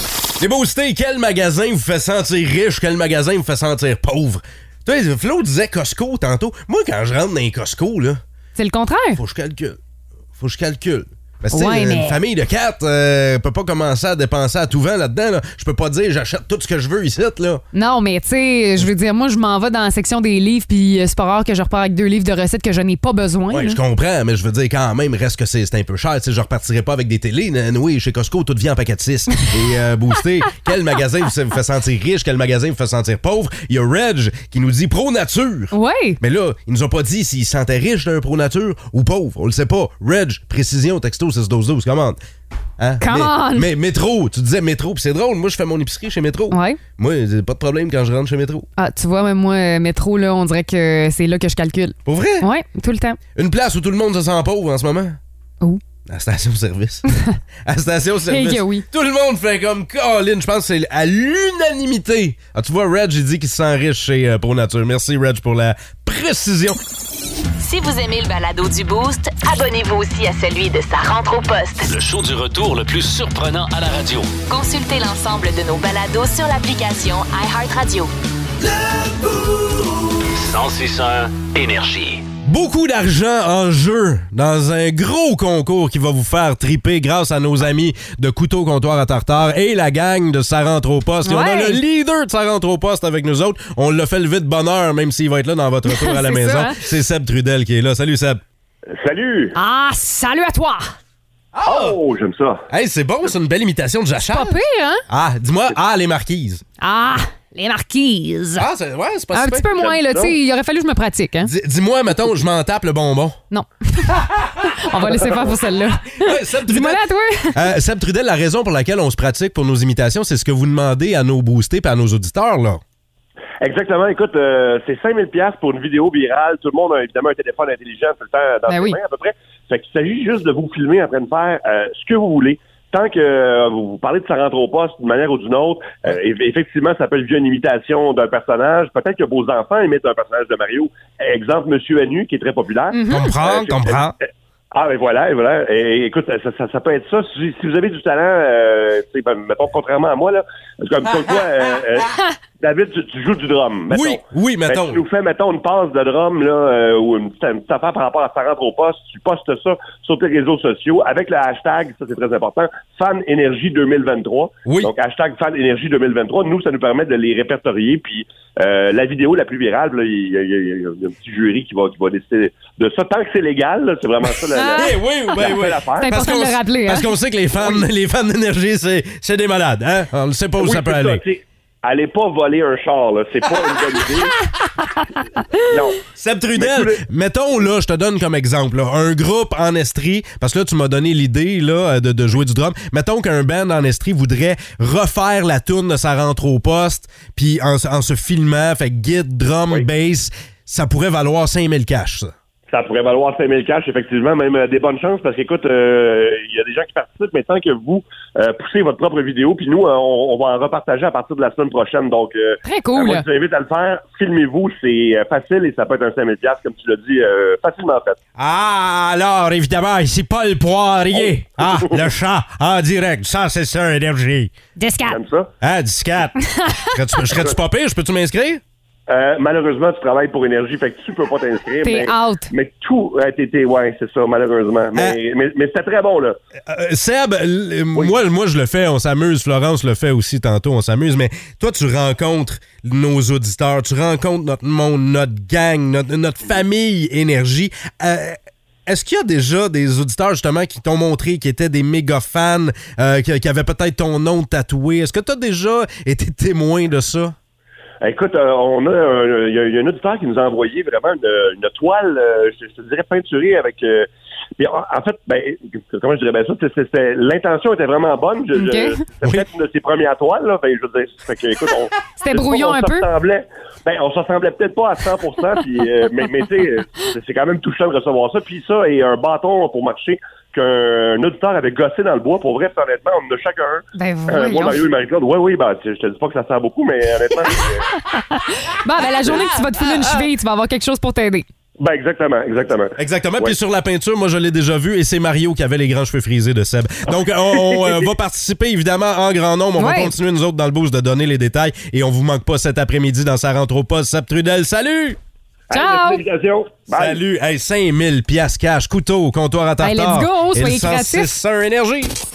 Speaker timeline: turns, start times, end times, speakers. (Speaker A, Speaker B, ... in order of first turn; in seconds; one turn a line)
Speaker A: 0.4-8.2
Speaker B: 8.6-9.2
Speaker A: 9.2-9.8
Speaker A: 10.4-17.6
Speaker B: 11.5-12.2
Speaker B: 17.7-23.8
Speaker A: 23.5-42.2
Speaker B: 35.7-36.2
Speaker A: 42.8-48.7
Speaker B: 43.0-43.7
Speaker B: 46.5-46.8
Speaker B: 48.8-53.2
Speaker A: 52.0-52.5
Speaker A: 53.4-55.2
Speaker A: 56.0-57.0
Speaker B: 57.1-57.4
Speaker A: 57.6-66.8
Speaker B: 58.3-58.8
Speaker C: 67.6-71.9
Speaker D: 71.8-74.3
Speaker C: 74.5-78.1
Speaker D: 80.3-82.2
Speaker A: 82.4-98.4
Speaker B: 91.2-91.8
Speaker B: 95.9-96.8
Speaker E: 99.0-99.5
Speaker B: 99.5-100.9
Speaker A: 101.5-102.0
Speaker E: 101.7-102.6
Speaker A: 102.7-104.5
Speaker B: 104.3-105.0
Speaker A: 105.1-106.6
Speaker B: 106.8-108.7
Speaker A: 108.6-110.0
Speaker B: 109.3-111.5
Speaker E: 110.0-110.3
Speaker A: 111.4-113.4
Speaker B: 113.5-117.6
Speaker A: 114.2-115.3
Speaker A: 116.2-117.0
Speaker A: 117.5-122.8
Speaker E: 123.6-144.0
Speaker B: 128.7-129.0
Speaker B: 142.9-143.3
Speaker A: 143.1-144.1
Speaker E: 144.7-176.1
Speaker A: 153.9-155.0
Speaker A: 164.7-164.9
Speaker B: 174.5-175.0
Speaker A: 174.8-181.2
Speaker B: 176.0-177.1
Speaker E: 180.6-184.3
Speaker E: 185.6-187.0
Speaker A: 186.1-202.3
Speaker E: 202.7-218.2
Speaker B: 212.6-213.2
Speaker A: 218.4-224.5
Speaker E: 221.1-222.1
Speaker B: 224.8-225.2
Speaker E: 225.1-225.5
Speaker A: 225.6-228.6
Speaker B: 226.4-226.9
Speaker E: 229.1-236.4
Speaker B: 231.8-232.5
Speaker A: 236.7-257.3
Speaker E: 258.0-264.1
Speaker E: 264.6-287.9
Speaker B: 268.5-269.0
Speaker B: 272.2-273.1
Speaker B: 283.9-284.8
Speaker B: 288.1-291.4
Speaker E: 291.8-293.6
Speaker A: 293.0-305.2
Speaker E: 297.6-298.1
Speaker B: 299.8-300.1
Speaker E: 305.7-307.2
Speaker B: 305.7-306.2
Speaker A: 306.9-312.1
Speaker B: 309.8-311.4